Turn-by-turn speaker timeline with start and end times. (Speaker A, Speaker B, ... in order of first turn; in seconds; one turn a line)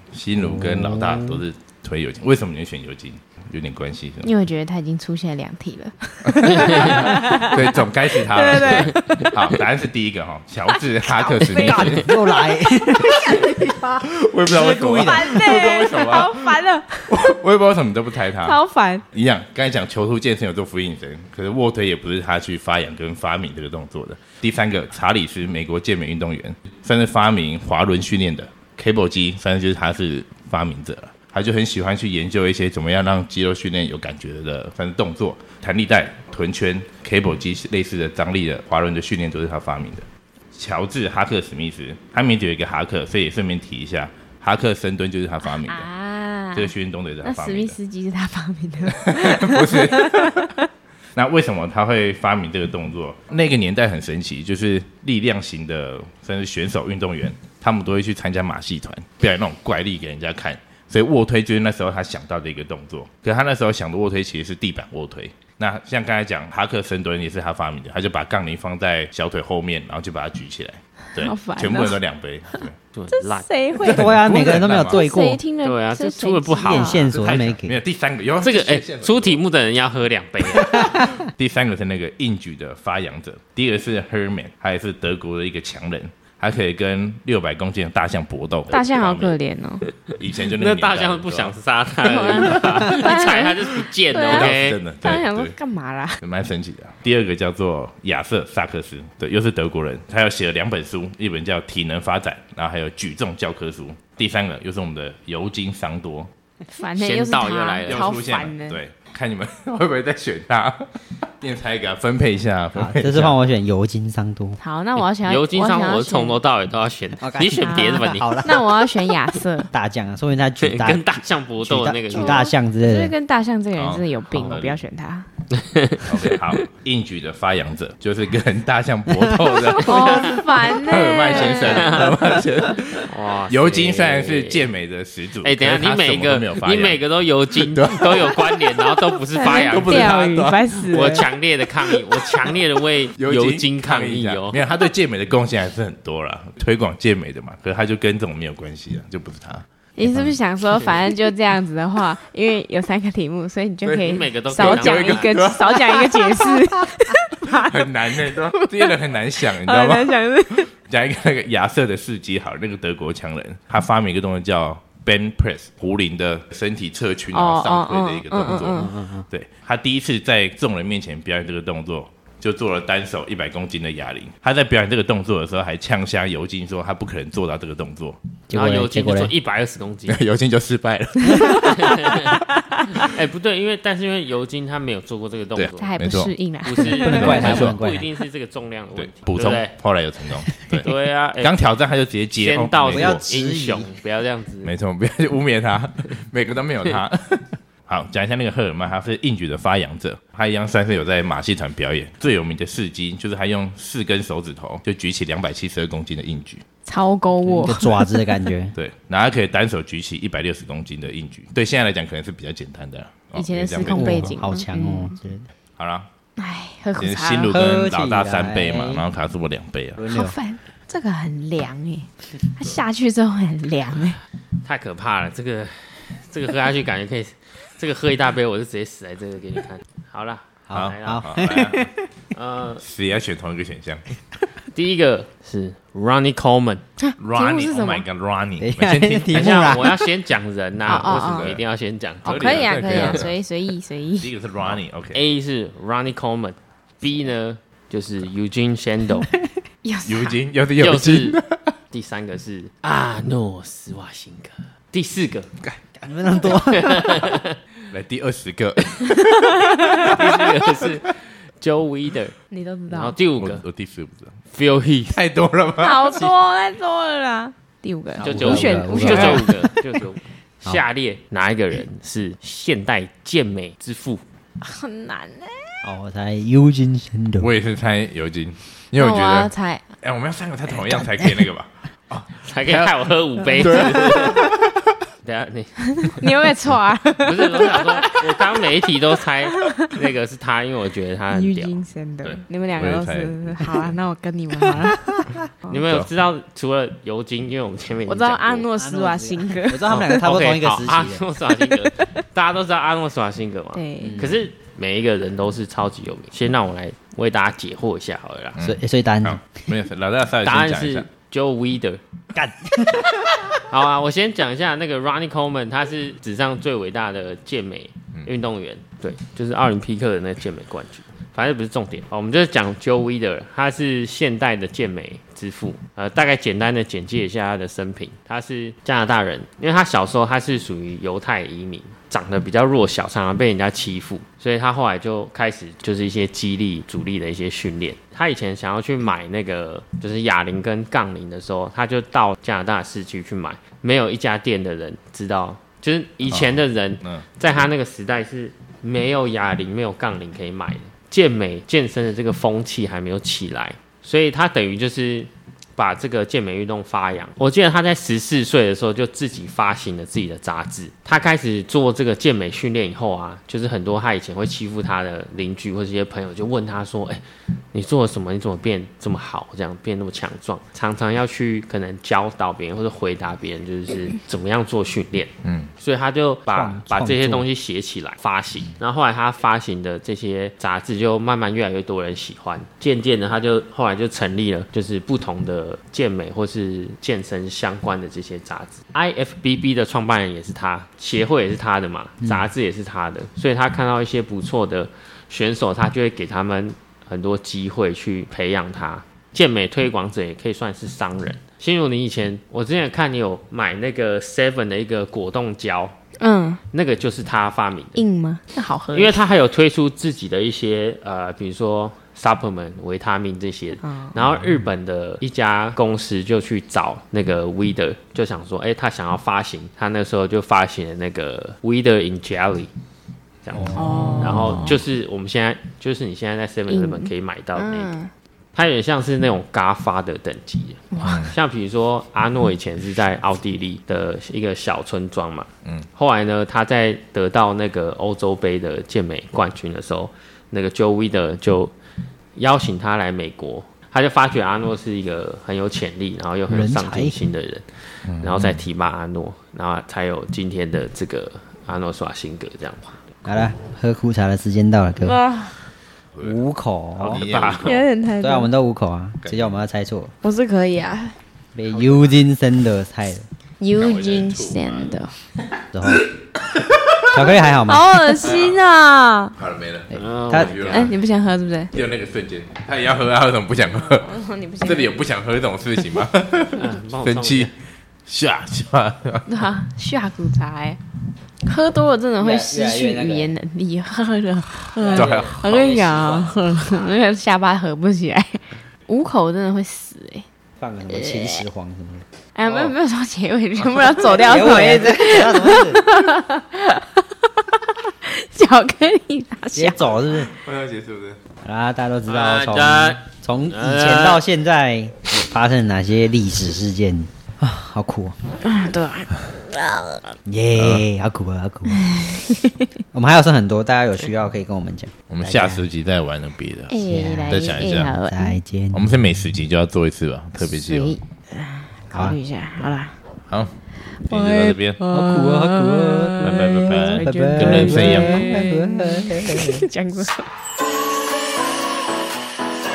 Speaker A: 0.1-4.3
Speaker B: 0.4-0.9
Speaker C: 0.6-1.4
Speaker D: 4.2-9.2
Speaker A: 6.3-12.1
Speaker D: 10.7-12.4
Speaker B: 11.6-15.8
Speaker A: 14.0-18.6
Speaker D: 14.9-17.3
Speaker D: 18.4-19.0
Speaker A: 19.1-45.9
Speaker D: 45.5-50.6
Speaker A: 46.5-47.8
Speaker A: 49.0-50.5
Speaker A: 51.1-72.8
Speaker D: 71.2-72.0
Speaker D: 72.5-77.1
Speaker C: 72.9-73.5
Speaker B: 73.8-75.4
Speaker A: 73.8-75.0
Speaker C: 75.6-77.2
Speaker B: 76.6-77.8
Speaker A: 77.1-79.4
Speaker C: 78.4-81.1
Speaker A: 80.6-89.4
Speaker D: 88.7-89.8
Speaker C: 90.1-94.8
Speaker A: 90.2-93.2
Speaker D: 92.1-96.2
Speaker A: 94.2-95.6
Speaker A: 96.2-106.3
Speaker D: 106.7-108.8
Speaker C: 107.0-108.1
Speaker A: 107.8-113.4
Speaker B: 112.7-114.6
Speaker D: 114.6-116.4
Speaker C: 115.2-118.7
Speaker B: 117.2-118.6
Speaker D: 117.6-119.7
Speaker B: 119.7-123.1
Speaker C: 120.6-122.5
Speaker D: 122.1-125.3
Speaker A: 123.8-124.8
Speaker C: 125.5-126.5
Speaker A: 126.0-137.0
Speaker B: 129.2-129.6
Speaker D: 129.8-132.0
Speaker C: 131.3-132.2
Speaker C: 133.1-134.7
Speaker C: 135.4-140.2
Speaker A: 137.6-140.7
Speaker D: 139.4-141.3
Speaker C: 140.9-144.6
Speaker A: 143.2-150.3
Speaker D: 150.0-160.7
Speaker A: 153.8-156.6
Speaker C: 153.9-155.3
Speaker A: 157.4-178.2
Speaker D: 167.3-169.0
Speaker B: 168.7-169.3
Speaker B: 178.5-179.3
Speaker C: 178.5-180.2
Speaker A: 180.1-182.2
Speaker D: 181.3-181.7
Speaker C: 181.5-185.9
Speaker D: 182.3-182.8
Speaker A: 185.6-186.3
Speaker D: 185.8-187.5
Speaker C: 186.6-189.8
Speaker B: 187.0-188.1
Speaker A: 187.1-187.8
Speaker A: 188.9-193.2
Speaker C: 190.8-191.7
Speaker C: 192.4-194.7
Speaker B: 192.9-193.9
Speaker A: 194.7-206.6
Speaker D: 206.9-208.5
Speaker B: 207.4-208.8
Speaker A: 208.8-214.4
Speaker D: 213.3-215.2
Speaker B: 213.8-215.5
Speaker A: 215.8-216.1
Speaker D: 216.4-217.6
Speaker A: 217.0-220.0
Speaker B: 217.5-219.0
Speaker B: 219.9-220.4
Speaker D: 220.1-224.2
Speaker C: 224.6-231.6
Speaker B: 230.7-231.9
Speaker A: 230.7-231.9
Speaker C: 232.3-232.8
Speaker A: 232.8-234.1
Speaker C: 234.7-236.8
Speaker D: 237.0-238.1
Speaker A: 237.2-239.9
Speaker B: 238.6-240.0
Speaker C: 239.3-243.2
Speaker A: 240.9-241.6
Speaker D: 240.9-241.5
Speaker D: 242.2-244.3
Speaker A: 242.2-243.3
Speaker A: 244.2-245.2
Speaker C: 244.6-249.3
Speaker D: 249.8-250.4
Speaker A: 250.1-251.7
Speaker C: 250.8-251.4
Speaker C: 251.9-255.5
Speaker B: 256.0-257.4
Speaker C: 256.5-257.6
Speaker A: 257.9-260.7
Speaker D: 259.7-260.1
Speaker C: 260.0-262.4
Speaker D: 262.5-263.2
Speaker C: 262.9-263.6
Speaker A: 263.4-264.3
Speaker C: 264.5-265.2
Speaker A: 265.1-266.3
Speaker D: 265.8-269.5
Speaker C: 268.2-274.2
Speaker B: 268.2-269.5
Speaker D: 274.6-275.8
Speaker B: 275.8-277.5
Speaker A: 277.4-284.8
Speaker D: 279.0-279.8
Speaker D: 280.7-281.4
Speaker C: 282.4-284.5
Speaker C: 285.2-286.3
Speaker D: 286.0-288.2
Speaker C: 287.2-291.8
Speaker D: 289.5-289.9
Speaker D: 291.3-295.8
Speaker A: 292.2-293.9
Speaker C: 295.7-298.7
Speaker D: 298.1-300.4
Speaker B: 298.7-301.2
Speaker C: 299.9-308.6
Speaker D: 303.7-304.3
Speaker B: 304.0-304.4
Speaker A: 308.6-311.1
Speaker B: 308.6-309.4
Speaker C: 310.4-312.0
Speaker B: 312.3-313.5
Speaker C: 313.6-406.0
Speaker A: 346.3-347.3
Speaker A: 375.4-375.7
Speaker B: 376.5-377.5
Speaker D: 406.2-406.6
Speaker C: 406.7-408.1
Speaker D: 407.9-409.2
Speaker C: 408.9-422.7
Speaker D: 413.8-414.2
Speaker C: 423.4-427.9
Speaker B: 423.5-424.6
Speaker D: 423.7-424.8
Speaker D: 426.7-428.1
Speaker C: 428.5-441.7
Speaker D: 430.9-431.3
Speaker A: 431.0-431.3
Speaker C: 442.4-453.2
Speaker B: 446.5-447.2
Speaker A: 448.1-448.6
Speaker B: 453.3-455.2
Speaker D: 455.0-455.6
Speaker B: 456.2-457.2
Speaker C: 457.0-457.8
Speaker A: 457.0-457.9
Speaker D: 457.6-458.5
Speaker B: 458.2-460.1
Speaker A: 459.2-459.6
Speaker D: 460.2-461.1
Speaker B: 461.6-463.3
Speaker D: 463.6-465.1
Speaker A: 463.8-464.9
Speaker B: 465.7-466.1
Speaker A: 467.0-467.3
Speaker B: 467.1-467.9
Speaker D: 467.6-469.4
Speaker A: 468.2-468.6
Speaker A: 469.4-470.9
Speaker C: 469.9-470.9
Speaker B: 469.9-470.7
Speaker D: 470.7-471.7
Speaker A: 471.7-474.1
Speaker D: 473.8-475.0
Speaker A: 474.6-477.5
Speaker C: 476.6-477.5
Speaker A: 478.1-479.2
Speaker D: 479.3-480.8
Speaker D: 481.4-490.2
Speaker B: 482.2-483.3
Speaker C: 484.8-486.3
Speaker A: 484.9-486.4
Speaker B: 490.6-492.1
Speaker D: 490.9-491.4
Speaker D: 492.4-499.8
Speaker B: 494.0-495.9
Speaker B: 499.5-500.3
Speaker A: 500.3-501.2
Speaker B: 501.4-508.2
Speaker C: 502.1-504.3
Speaker D: 508.4-510.0
Speaker B: 510.2-511.8
Speaker A: 510.6-510.8
Speaker D: 511.8-512.6
Speaker B: 512.9-515.6
Speaker A: 515.1-518.0
Speaker D: 516.7-518.4
Speaker B: 516.9-518.9
Speaker A: 518.7-521.0
Speaker D: 520.4-523.0
Speaker B: 521.9-522.2
Speaker A: 523.3-524.8
Speaker D: 524.0-530.3
Speaker B: 524.9-529.6
Speaker A: 526.2-528.3